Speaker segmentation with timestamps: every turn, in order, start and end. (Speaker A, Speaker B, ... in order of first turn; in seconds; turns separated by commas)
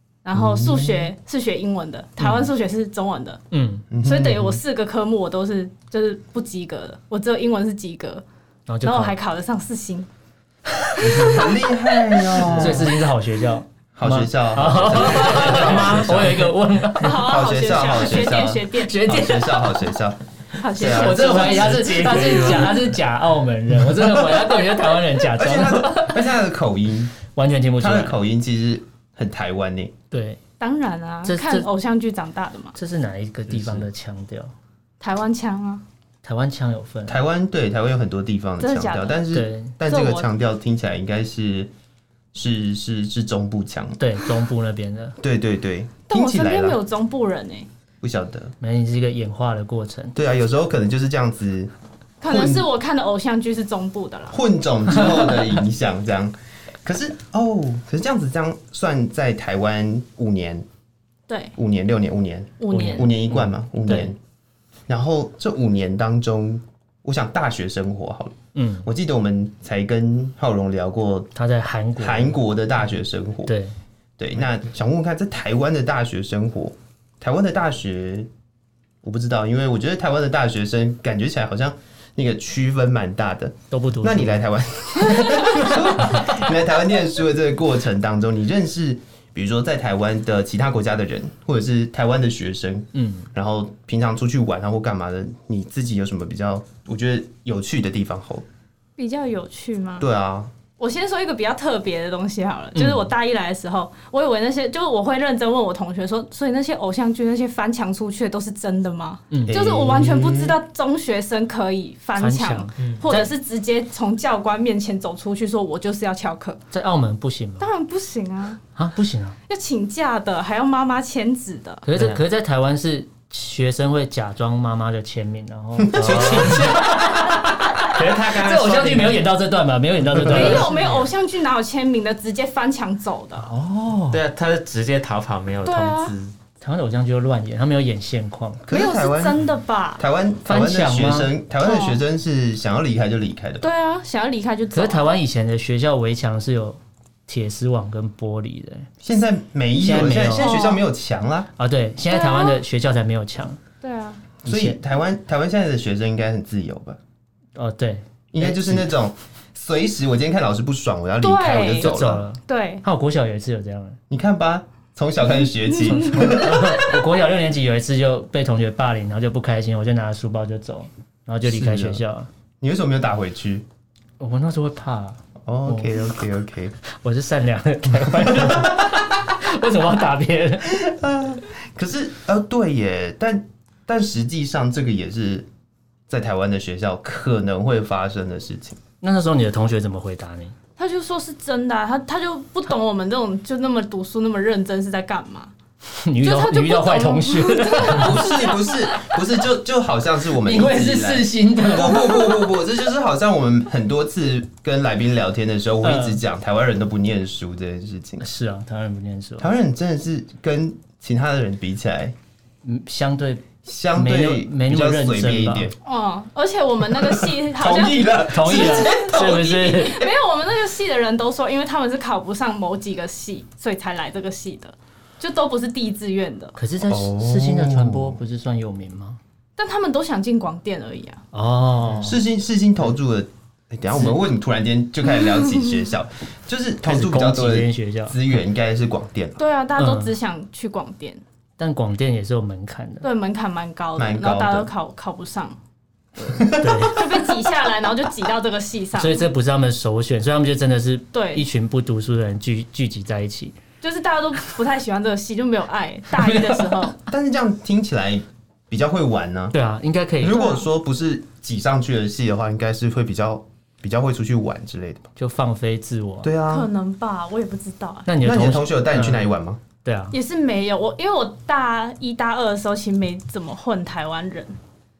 Speaker A: 0.2-3.4, Speaker B: 0.3-1.1, Speaker C: 2.2-2.5, Speaker C: 3.5-3.9, Speaker B: 3.9-4.6, Speaker A: 4.0-8.2, Speaker C: 8.7-9.2, Speaker A: 8.8-10.1, Speaker C: 10.8-11.5, Speaker A: 11.0-11.7, Speaker B: 11.0-13.0, Speaker C: 12.3-17.3, Speaker B: 13.9-16.5, Speaker A: 17.0-19.0, Speaker B: 17.1-20.2, Speaker C: 18.9-19.9, Speaker A: 20.6-22.6, Speaker B: 20.7-22.6, Speaker C: 20.8-26.3, Speaker B: 23.9-24.6, Speaker B: 25.2-27.2, Speaker C: 27.3-28.2, Speaker B: 27.8-29.9, Speaker C: 30.1-30.4, Speaker A: 30.6-32.7, Speaker C: 31.2-31.7, Speaker C: 32.8-34.5, Speaker B: 33.5-33.8, Speaker A: 35.0-35.8, Speaker C: 36.2-37.2, Speaker B: 37.1-41.7, Speaker A: 38.6-39.3, Speaker C: 39.3-39.7, Speaker A: 39.8-40.3, Speaker B: 42.3-44.0, Speaker C: 44.0-45.2, Speaker B: 45.2-46.8, Speaker A: 46.1-47.7, Speaker B: 48.0-48.5, Speaker C: 48.6-50.1, Speaker B: 50.1-51.7, Speaker A: 52.2-54.4, Speaker B: 52.3-52.7, Speaker B: 54.3-56.3, Speaker B: 56.8-60.6, Speaker A: 61.3-61.5, Speaker B: 61.6-64.2, Speaker A: 62.6-63.1, Speaker C: 62.7-64.1, Speaker B: 64.9-71.3, Speaker C: 68.5-68.9, Speaker C: 71.4-72.4, Speaker B: 72.0-73.5, Speaker C: 73.5-73.8, Speaker B: 74.2-78.3, Speaker B: 79.0-98.5, Speaker C: 83.7-84.4, Speaker C: 85.1-86.2, Speaker C: 93.0-93.3, Speaker A: 99.0-100.1, Speaker B: 100.0-100.5, Speaker A: 100.8-116.6, Speaker C: 102.8-103.1, Speaker C: 109.3-109.6, Speaker B: 109.5-110.6, Speaker C: 112.2-113.3, Speaker C: 116.7-117.7, Speaker A: 117.6-118.6, Speaker C: 118.8-119.4, Speaker A: 119.5-121.8, Speaker C: 121.8-131.1, Speaker D: 121.9-122.2, Speaker B: 125.8-126.9, Speaker D: 126.0-126.8, Speaker D: 127.8-129.3, Speaker A: 130.2-133.5, Speaker B: 130.2-130.7, Speaker C: 133.5-134.2, Speaker D: 134.1-136.3, Speaker A: 135.7-136.1, Speaker C: 136.6-138.6, Speaker B: 138.6-139.4, Speaker A: 138.7-140.0, Speaker B: 140.0-143.7, Speaker C: 140.5-141.3, Speaker A: 141.6-142.0, Speaker A: 143.6-145.2, Speaker C: 144.7-148.9, Speaker B: 149.0-151.5, Speaker C: 149.8-150.7, Speaker A: 149.9-150.8, Speaker C: 151.6-153.6, Speaker A: 152.1-152.6, Speaker A: 153.8-154.2, Speaker B: 154.4-157.0, Speaker C: 154.4-154.8, Speaker C: 157.6-158.9, Speaker B: 158.3-162.3, Speaker A: 161.2-162.8, Speaker C: 161.8-164.0, Speaker B: 164.1-167.0, Speaker C: 166.0-172.3, Speaker B: 171.4-172.0, Speaker B: 172.6-173.7, Speaker C: 174.2-176.1, Speaker B: 175.5-176.8, Speaker C: 177.0-180.8, Speaker B: 177.9-179.0, Speaker B: 180.7-185.5, Speaker B: 186.1-188.8, Speaker C: 189.0-190.5, Speaker A: 190.8-195.5, Speaker C: 196.0-198.3, Speaker A: 196.2-198.8, Speaker B: 197.9-208.3, Speaker C: 200.4-202.4, Speaker C: 205.8-206.2, Speaker C: 208.2-209.5, Speaker B: 209.4-212.1, Speaker C: 212.6-215.7, Speaker B: 213.7-215.7, Speaker A: 215.8-226.6, Speaker B: 217.0-219.6, Speaker C: 218.3-220.0, Speaker C: 226.6-229.2, Speaker B: 226.9-228.2, Speaker A: 229.6-231.2, Speaker C: 231.3-232.2, Speaker B: 232.0-239.4, Speaker C: 236.8-238.2, Speaker A: 239.4-241.2, Speaker C: 239.8-240.1, Speaker C: 241.6-243.1, Speaker A: 243.0-245.6, Speaker B: 244.0-244.7, Speaker A: 246.2-249.2, Speaker B: 246.2-246.9, Speaker C: 246.6-247.1, Speaker C: 249.0-253.6, Speaker A: 251.1-251.4, Speaker A: 253.8-256.9, Speaker C: 256.2-256.7, Speaker B: 257.1-259.6, Speaker C: 259.5-260.5, Speaker B: 260.2-265.1, Speaker A: 260.3-260.7, Speaker C: 265.2-266.3, Speaker B: 266.2-266.7, Speaker A: 266.5-268.1, Speaker C: 268.1-269.3, Speaker B: 268.2-269.6, Speaker C: 269.8-270.2, Speaker A: 270.1-274.5